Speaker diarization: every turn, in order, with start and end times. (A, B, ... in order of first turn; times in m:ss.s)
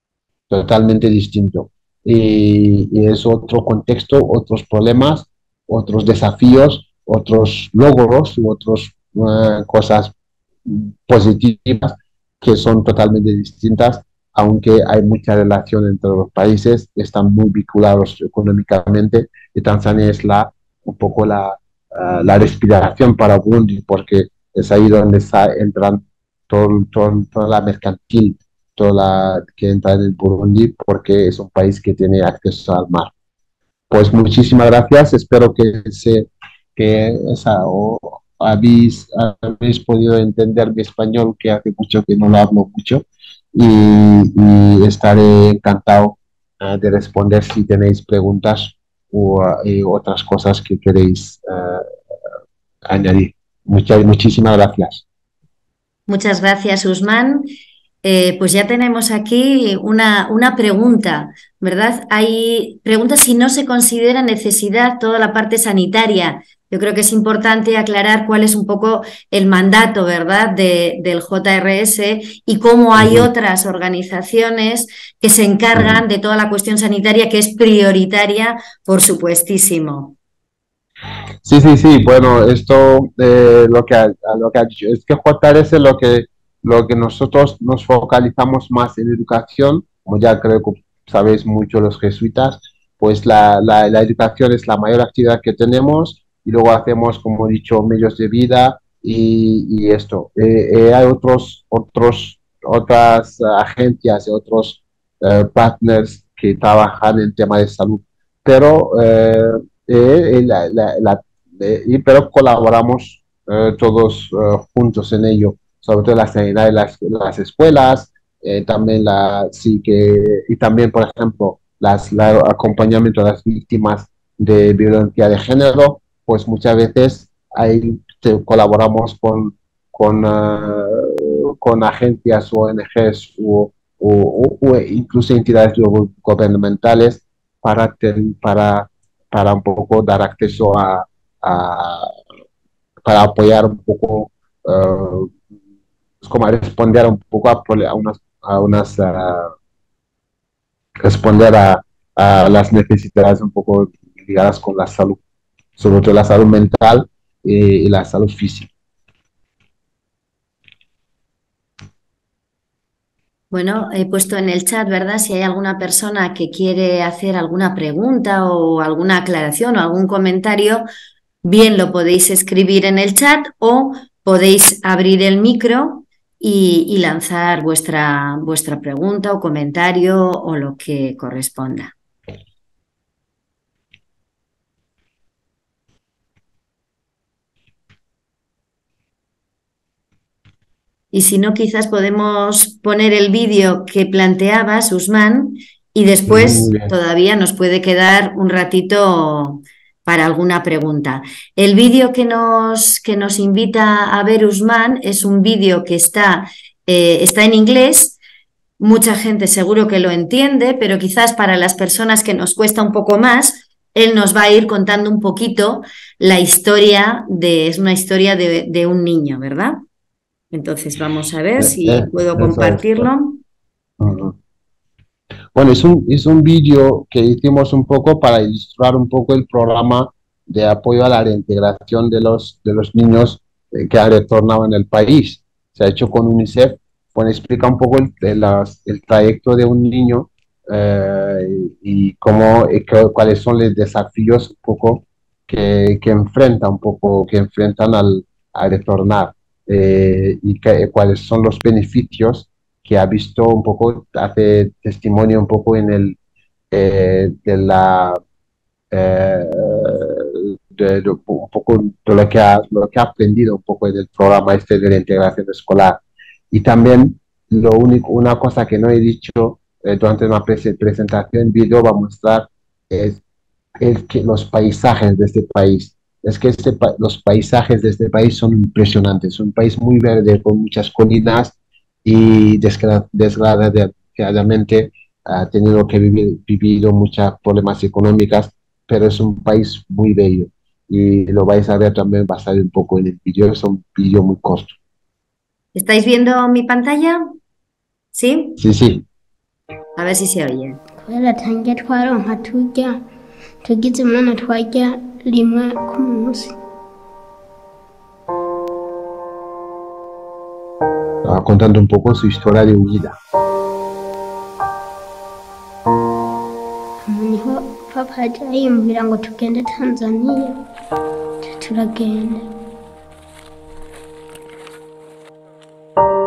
0:00.5-0:10.1 A
0:10.6-0:33.1 A
0:33.9-0:51.8 A
0:52.9-0:55.0 A
0:56.1-0:57.5 B
0:58.0-1:20.2 B
1:13.0-1:13.3 A
1:15.7-1:16.0 A
1:21.4-2:22.1 A
2:23.0-2:25.3 A
2:26.2-2:29.5 A
2:31.0-2:35.2 A
2:35.8-2:38.7 A
2:43.5-2:50.8 B
2:51.4-3:01.9 B
3:11.1-3:28.2 B
3:16.3-3:16.9 A
3:28.8-3:39.8 B
3:40.5-3:43.4 B
3:41.6-3:43.1 A
3:44.0-3:44.4 A
3:45.5-4:16.2 A
4:16.7-4:18.2 A
4:18.9-4:33.2 A
4:33.8-4:54.8 A
4:55.7-4:57.3 B
4:58.1-4:58.6 B
4:58.6-4:59.0 A
5:00.0-5:00.8 B
5:01.0-5:03.0 C
5:03.6-5:06.5 C
5:11.2-5:13.1 A
5:17.1-5:20.6 C
5:21.4-5:22.5 C